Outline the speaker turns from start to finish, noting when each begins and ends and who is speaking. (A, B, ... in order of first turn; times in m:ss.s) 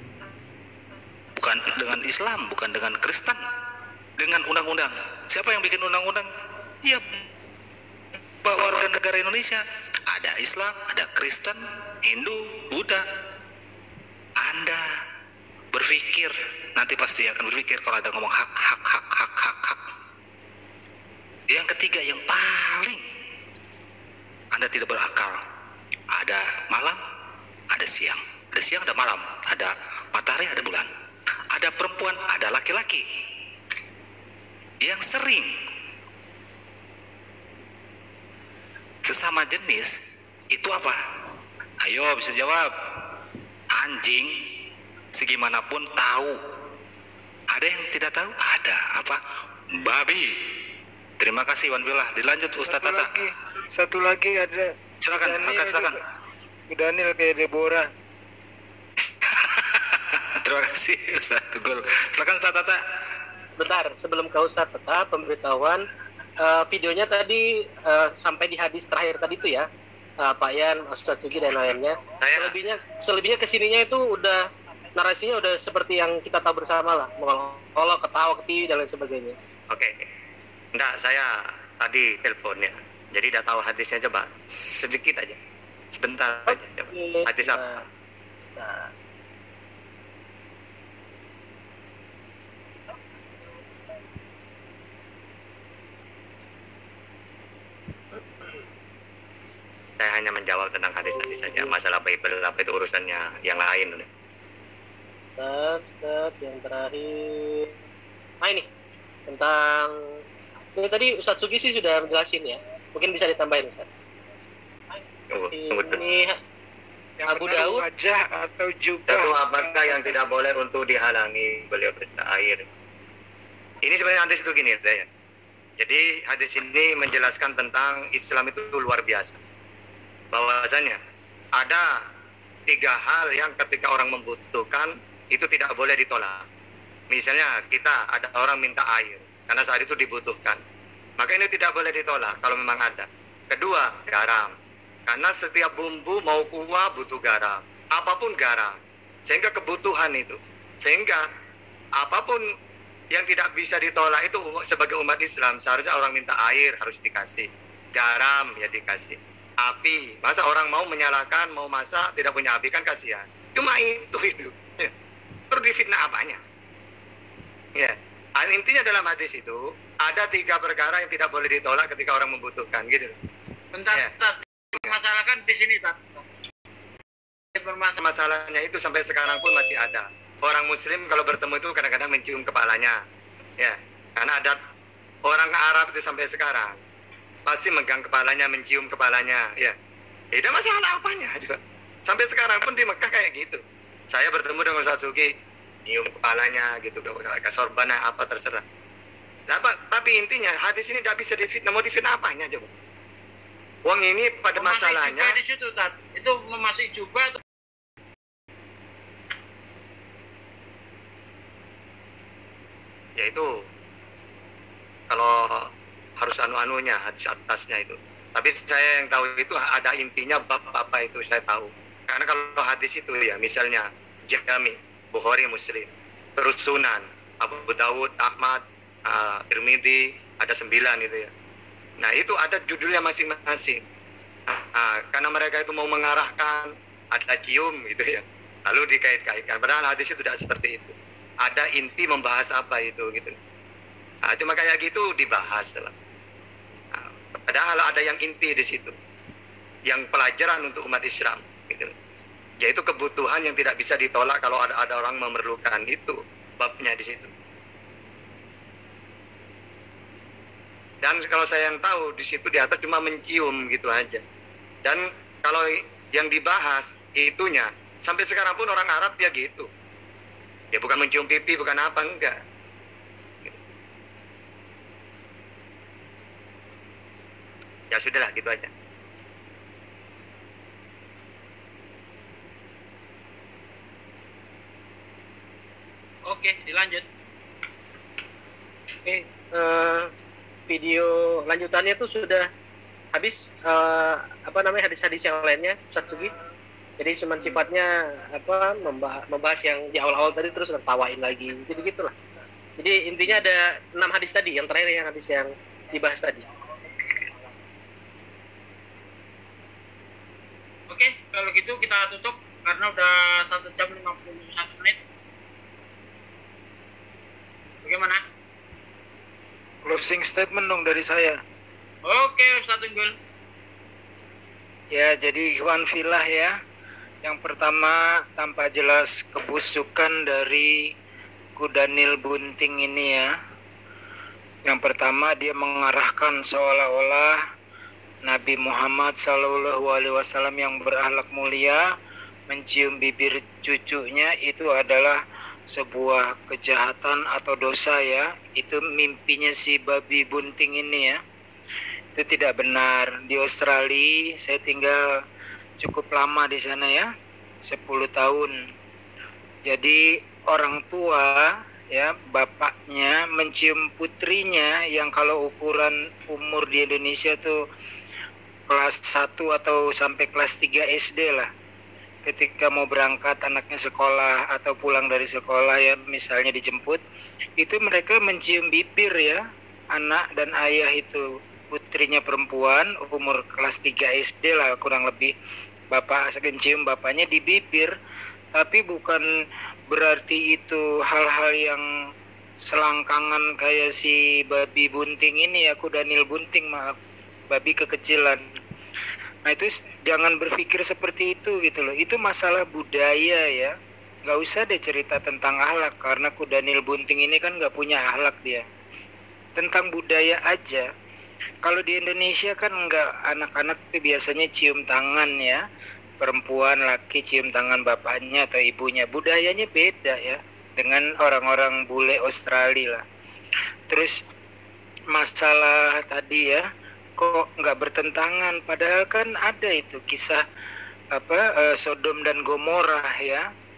0:01.3-0:03.4 A
0:04.2-0:06.3 A
0:06.8-0:07.2 A
0:08.4-0:13.0 A
0:14.4-0:14.8 A
0:15.7-0:19.8 A
0:21.5-0:23.0 A
0:24.5-0:25.4 A
0:26.1-0:27.0 A
0:27.7-0:30.9 A
0:31.5-0:33.0 A
0:34.8-0:35.5 A
0:39.0-0:40.0 A
0:40.5-0:41.0 A
0:41.8-0:42.7 A
0:43.7-0:44.3 A
0:45.1-0:46.4 A
0:47.5-0:49.2 A
0:49.7-0:50.3 A
0:51.2-0:53.1 A
0:52.7-0:55.9 B
0:55.0-0:56.0 A
0:56.7-0:57.9 B
0:59.2-1:02.8 A
1:03.6-1:05.8 C
1:06.4-1:09.7 C
1:10.2-1:19.4 C
1:12.2-1:12.6 D
1:19.7-1:20.0 D
1:20.7-1:25.4 D
1:25.9-1:27.8 D
1:26.5-1:27.8 C
1:28.6-1:28.9 C
1:40.0-1:44.1 D
1:45.4-1:47.7 C
1:48.4-1:48.7 C
1:49.3-1:49.9 C
1:50.7-1:53.9 C
1:55.3-1:56.0 D
1:55.5-1:56.4 C
1:57.2-2:00.1 B
1:57.2-1:57.8 C
1:59.1-2:02.6 D
2:03.8-2:05.1 D
2:05.8-2:09.4 D
2:10.3-2:11.0 D
2:11.6-2:11.9 D
2:12.7-2:16.4 D
2:17.1-2:20.6 D
2:21.2-2:24.5 D
2:25.1-2:28.7 D
2:29.2-2:31.2 D
2:32.0-2:32.4 D
2:33.1-2:44.9 D
2:45.5-2:46.4 D
2:47.8-2:53.1 D
2:53.7-2:56.2 E
2:57.5-2:58.0 E
2:58.0-3:03.0 D
3:03.6-3:04.6 D
3:05.2-3:06.8 D
3:07.4-3:09.8 D
3:10.3-3:15.3 D
3:15.8-3:18.6 D
3:19.5-3:22.7 D
3:23.8-3:25.4 D
3:24.6-3:27.4 E
3:33.2-3:33.6 D
3:35.1-3:51.3 D
3:52.0-3:53.8 D
3:54.5-4:03.4 D
4:04.2-4:05.9 D
4:06.9-4:08.9 D
4:09.9-4:11.9 D
4:12.6-4:17.3 D
4:21.0-4:24.2 D
4:24.8-4:29.7 D
4:30.7-4:32.4 D
4:37.9-4:38.7 D
4:46.2-4:47.0 E
4:49.0-4:50.1 C
4:50.7-4:52.5 C
4:53.1-4:56.3 C
4:57.0-5:02.1 C
5:02.8-5:06.4 C
5:10.9-5:15.0 E
5:17.8-5:18.2 E
5:19.8-5:21.4 B
5:22.0-5:23.1 E
5:24.9-5:26.6 B
5:27.2-5:30.8 B
5:31.6-5:33.3 B
5:34.7-5:37.4 B
5:38.2-5:41.8 B
5:42.5-5:45.2 B
5:45.7-5:51.2 B
5:52.2-5:55.0 B
5:55.8-5:57.1 B
5:57.6-5:58.5 B
5:59.7-6:07.6 B
6:08.7-6:11.5 B
6:12.2-6:17.0 B
6:17.6-6:19.4 B
6:19.9-6:25.3 B
6:25.9-6:27.9 B
6:28.6-6:29.3 B
6:29.9-6:31.8 B
6:32.6-6:37.0 B
6:37.5-6:38.4 B
6:39.5-6:43.7 B
6:44.2-6:48.6 B
6:49.6-6:50.9 B
6:51.6-6:55.6 B
6:56.2-7:03.0 B
7:03.9-7:04.2 B
7:05.1-7:06.6 B
7:07.2-7:10.4 B
7:11.2-7:13.4 B